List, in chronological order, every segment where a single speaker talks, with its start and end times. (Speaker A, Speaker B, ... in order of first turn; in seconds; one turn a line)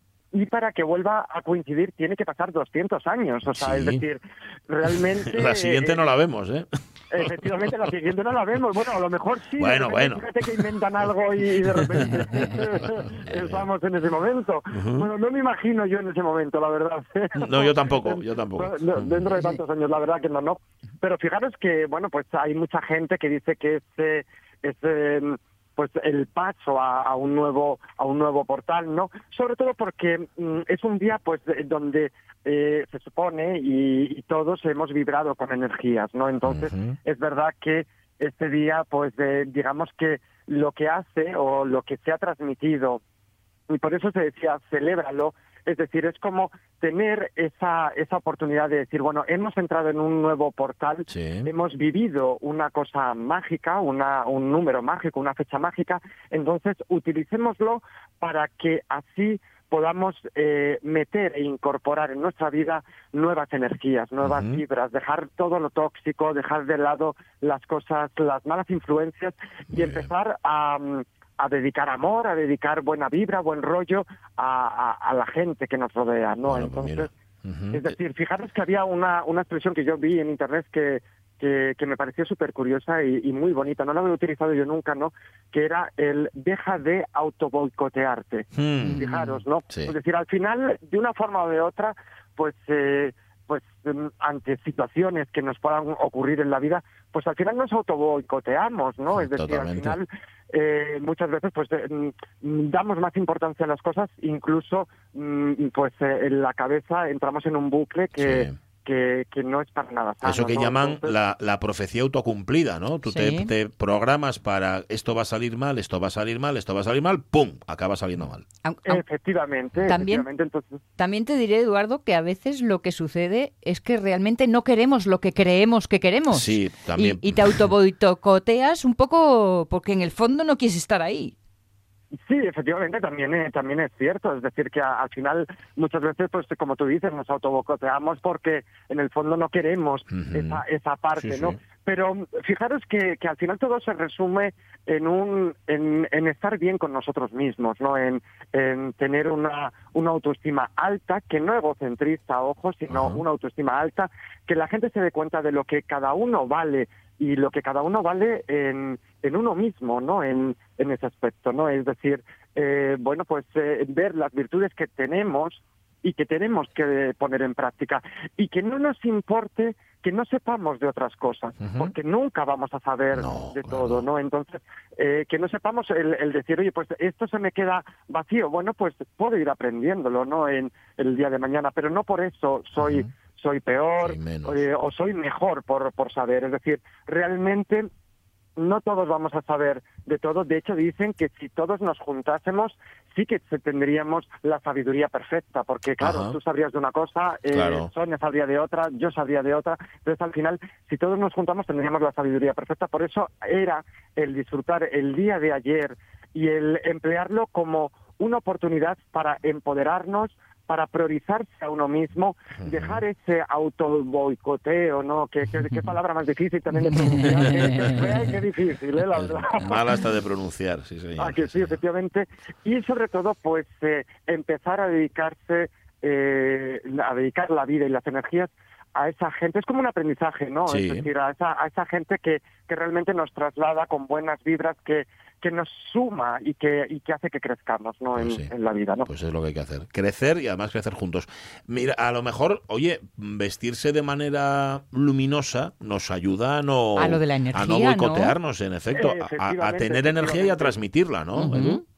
Speaker A: 0.3-6.1
Speaker B: 3.5-4.0
Speaker B: 4.9-7.9
Speaker A: 7.1-43.0
Speaker B: 9.6-10.7
Speaker B: 11.6-13.7
Speaker B: 14.7-15.1
Speaker B: 17.4-19.4
Speaker B: 36.5-37.0
Speaker A: 43.7-77.1
Speaker B: 51.1-51.5
Speaker B: 64.2-64.6
Speaker B: 69.7-70.1
Speaker B: 76.5-77.9
Speaker A: 77.7-111.1
Speaker B: 88.5-89.0
Speaker C: 88.8-89.4
Speaker B: 99.1-100.0
Speaker B: 108.2-108.5
Speaker B: 110.2-118.4
Speaker C: 113.1-113.5
Speaker C: 118.6-119.0
Speaker A: 118.8-120.7
Speaker B: 119.7-120.0
Speaker C: 119.9-120.2
Speaker C: 121.0-131.3
Speaker B: 126.3-127.6
Speaker A: 132.2-187.9
Speaker B: 140.1-140.6
Speaker B: 141.2-141.6
Speaker B: 152.9-153.2
Speaker B: 171.6-171.9
Speaker B: 173.1-174.1
Speaker B: 182.8-183.1
Speaker B: 184.0-184.6
Speaker A: 188.6-219.8
Speaker B: 196.0-196.3
Speaker B: 197.5-197.9
Speaker B: 212.6-213.0
Speaker C: 216.9-218.0
Speaker B: 217.2-218.1
Speaker B: 219.1-221.8
Speaker A: 221.2-239.1
Speaker B: 230.7-231.1
Speaker B: 238.2-238.5
Speaker B: 239.1-251.8
Speaker C: 246.9-248.3
Speaker A: 248.9-250.8
Speaker C: 251.3-251.8